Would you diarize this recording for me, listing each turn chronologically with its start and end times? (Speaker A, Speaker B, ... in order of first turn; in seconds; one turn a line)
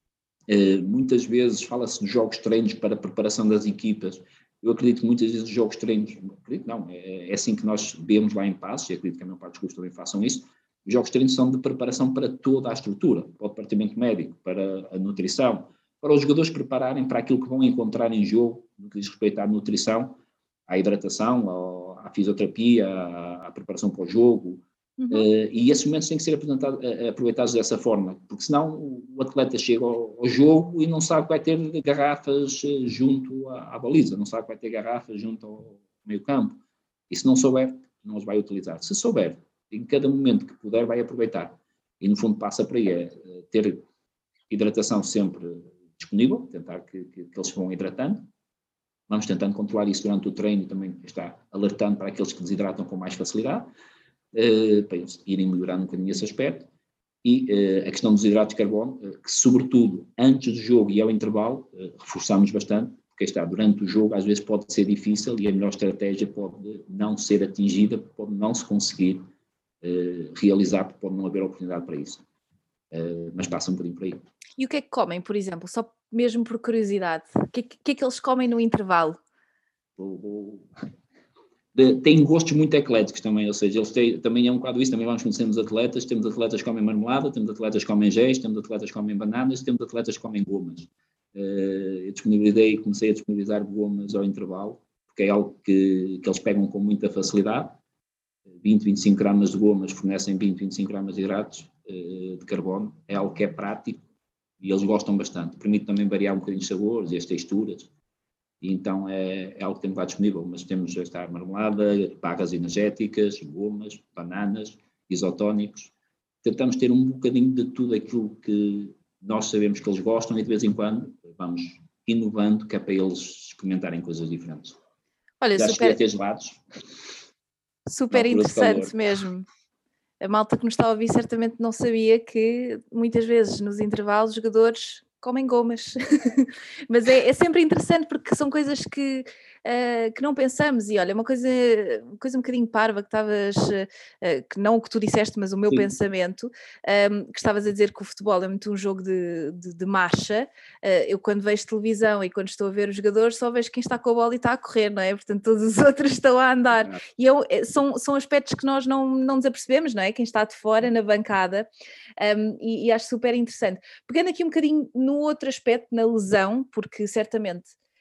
Speaker A: 0.5-43.8
Speaker B: 25.0-25.3
Speaker A: 44.5-48.3
Speaker A: 49.1-53.7
Speaker A: 54.3-56.7
Speaker A: 57.2-69.2
Speaker A: 69.8-72.2
Speaker A: 72.9-74.2
Speaker B: 74.6-79.2
Speaker A: 80.0-80.7
Speaker A: 81.7-97.8
Speaker A: 98.6-104.0
Speaker A: 104.6-107.9
Speaker A: 108.6-124.8
Speaker B: 125.4-126.0
Speaker A: 125.5-126.6
Speaker B: 127.9-129.4
Speaker A: 128.1-128.9
Speaker B: 130.2-161.7
Speaker B: 162.2-167.7